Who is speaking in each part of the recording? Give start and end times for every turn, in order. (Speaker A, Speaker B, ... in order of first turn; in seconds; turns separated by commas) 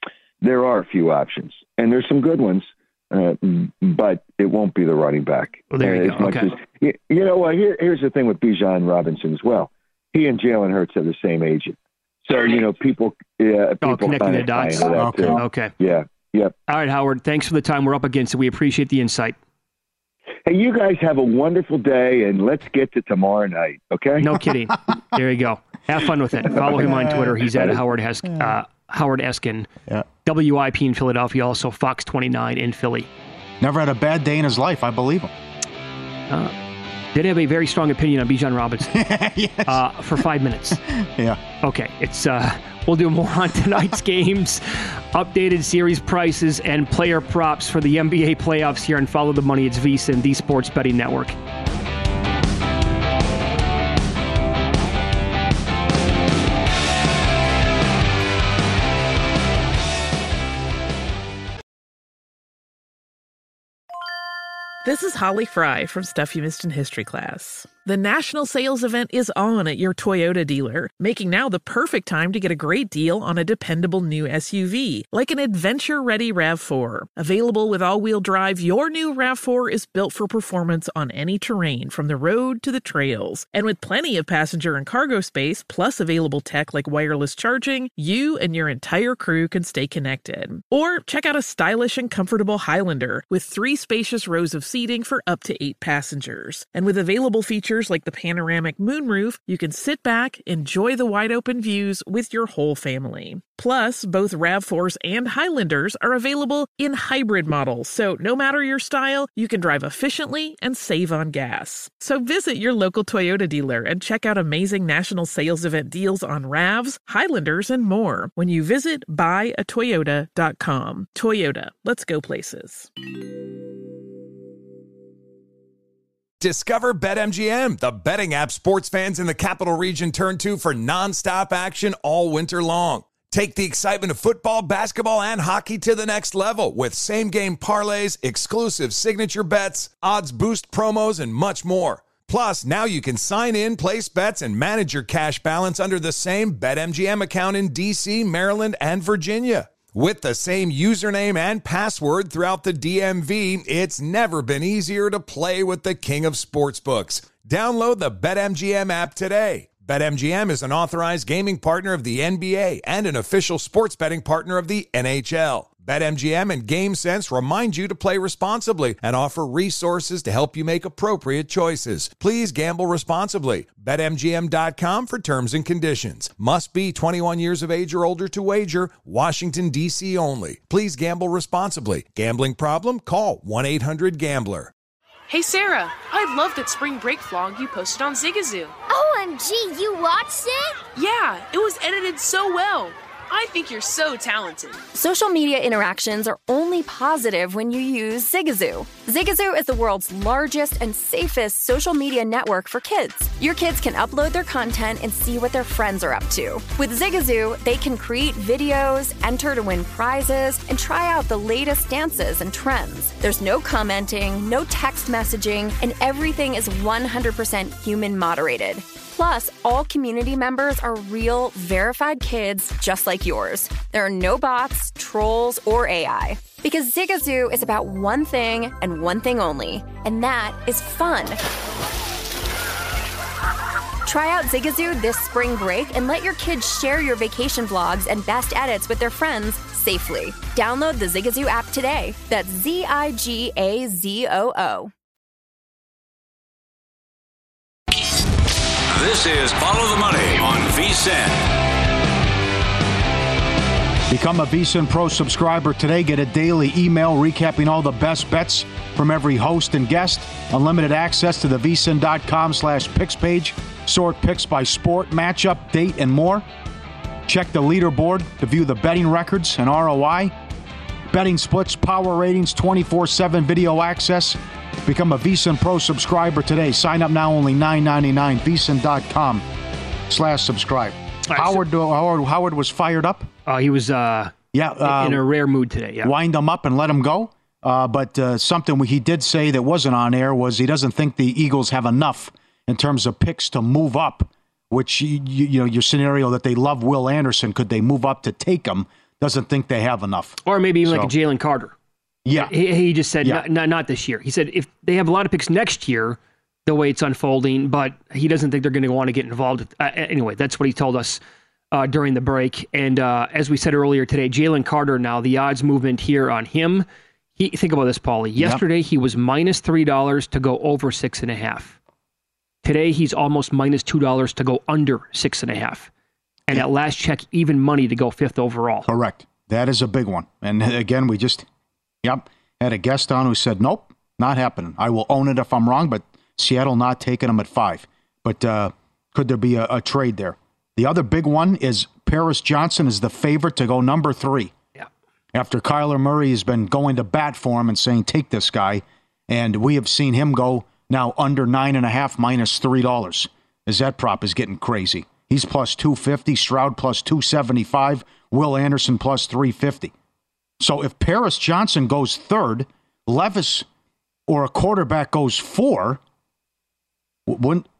Speaker A: 0.4-16.5, Speaker B: 5.7-6.5, Speaker B: 13.8-15.7, Speaker C: 15.0-15.4, Speaker B: 16.7-19.4, Speaker A: 20.4-24.3, Speaker B: 24.2-29.7, Speaker C: 26.7-27.4, Speaker C: 28.3-28.5, Speaker B: 30.2-33.1, Speaker C: 33.6-35.3, Speaker B: 36.3-36.5, Speaker B: 37.1-39.0, Speaker C: 38.9-39.8, Speaker B: 39.6-40.8, Speaker C: 40.9-41.4, Speaker B: 41.6-51.4, Speaker D: 64.8-122.9, Speaker E: 126.4-184.7, Speaker F: 185.3-188.8, Speaker G: 188.9-190.8, Speaker F: 190.9-194.8, Speaker H: 194.9-231.4, Speaker H: 234.1-244.9, Speaker I: 248.9-251.4, Speaker C: 254.1-266.4, Speaker C: 267.3-270.3, Speaker C: 271.1-279.4, Speaker C: 280.1-283.3, Speaker B: 281.3-281.6, Speaker B: 283.4-286.1, Speaker C: 284.5-285.2, Speaker C: 286.0-301.1, Speaker B: 300.4-301.7, Speaker C: 302.2-302.6, Speaker B: 302.4-311.2, Speaker B: 311.7-316.9, Speaker B: 317.4-321.8, Speaker C: 318.4-318.6, Speaker B: 322.6-325.9, Speaker B: 326.5-328.9, Speaker C: 328.9-331.4, Speaker C: 332.0-344.5, Speaker C: 345.3-359.9, Speaker C: 360.6-363.6, Speaker C: 364.3-366.0, Speaker C: 367.3-367.6